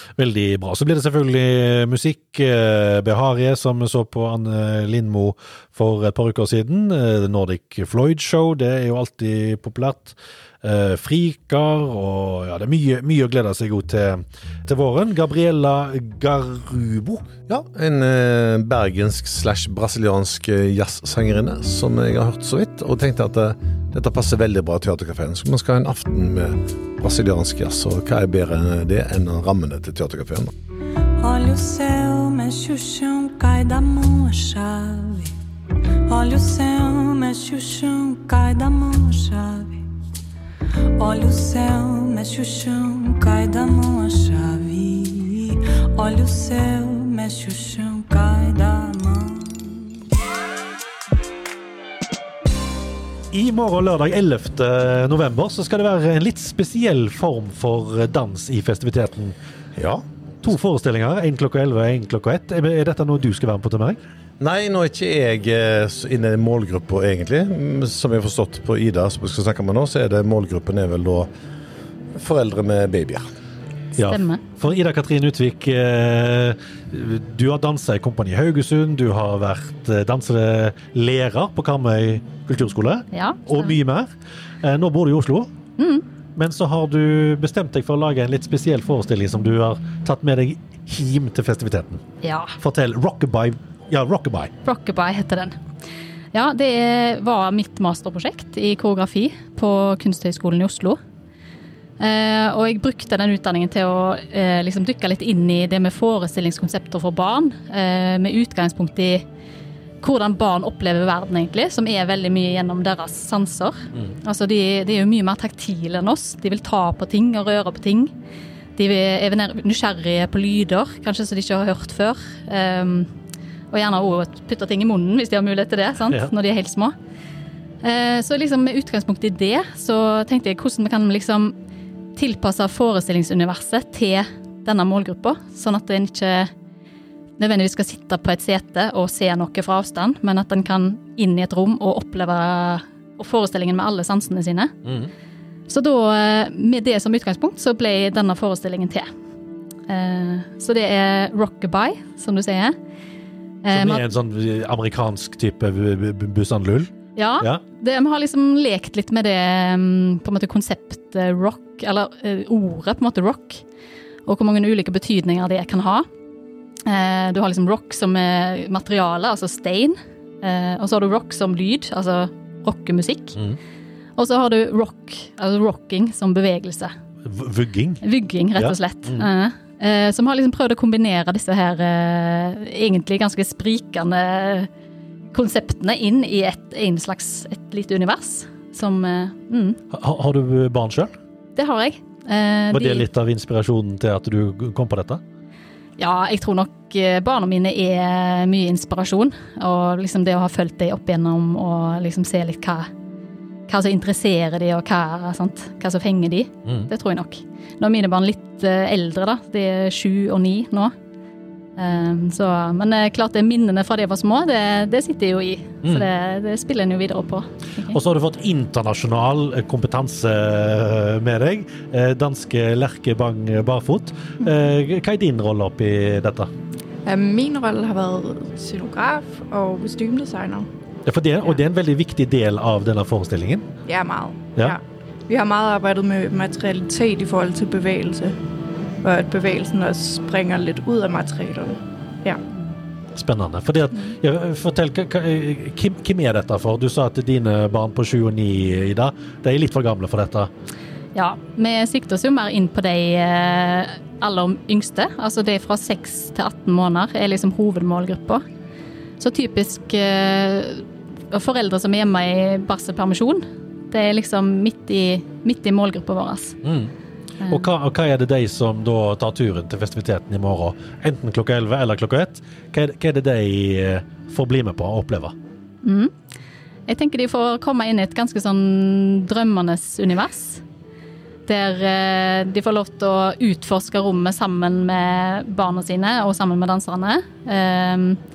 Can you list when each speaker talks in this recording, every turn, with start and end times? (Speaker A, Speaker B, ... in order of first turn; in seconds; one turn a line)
Speaker A: 0.2-17.3
Speaker B: 17.5-30.5
Speaker C: 31.2-35.3
Speaker C: 36.1-39.8
Speaker C: 41.0-50.0
Speaker A: 53.3-59.3
Speaker B: 59.8-60.0
Speaker A: 60.4-64.0
Speaker B: 64.4-71.3
Speaker B: 72.2-73.3
Speaker A: 74.0-84.1
Speaker D: 74.0-74.4
Speaker D: 83.1-83.8
Speaker A: 84.6-85.5
Speaker D: 85.8-86.0
Speaker A: 86.3-92.0
Speaker D: 92.2-92.6
Speaker A: 92.6-94.5
Speaker D: 94.7-95.6
Speaker D: 96.3-101.0
Speaker D: 102.0-109.2
Speaker D: 110.0-118.1
Speaker D: 118.8-123.1
Speaker D: 123.7-126.9
Speaker D: 127.8-131.5
Speaker D: 132.2-136.5
Speaker D: 137.4-144.7
Speaker A: 144.8-145.1
Speaker D: 145.7-149.1
Speaker D: 149.9-152.8
Speaker D: 153.6-154.1
Speaker A: 153.7-157.6
Speaker D: 157.2-163.6
Speaker D: 164.3-166.1
Speaker D: 166.8-173.4
Speaker D: 174.2-176.9
Speaker A: 177.2-178.0
Speaker D: 178.0-184.7
Speaker A: 178.6-179.3
Speaker D: 185.3-189.8
Speaker A: 189.9-191.1
Speaker D: 191.6-193.1
Speaker A: 192.7-195.2
Speaker D: 196.0-202.9
Speaker D: 203.7-210.9
Speaker D: 211.8-218.0
Speaker A: 217.9-226.5
Speaker E: 227.1-230.7
Speaker A: 231.1-233.7
Speaker E: 233.8-238.3
Speaker E: 239.0-242.4
Speaker A: 243.2-250.5
Speaker D: 251.2-258.4
Speaker D: 259.2-266.6
Speaker A: 266.6-266.9
Speaker D: 267.4-267.7
Speaker A: 267.5-275.3
Speaker D: 275.8-276.1
Speaker D: 276.9-280.6
Speaker D: 281.5-288.2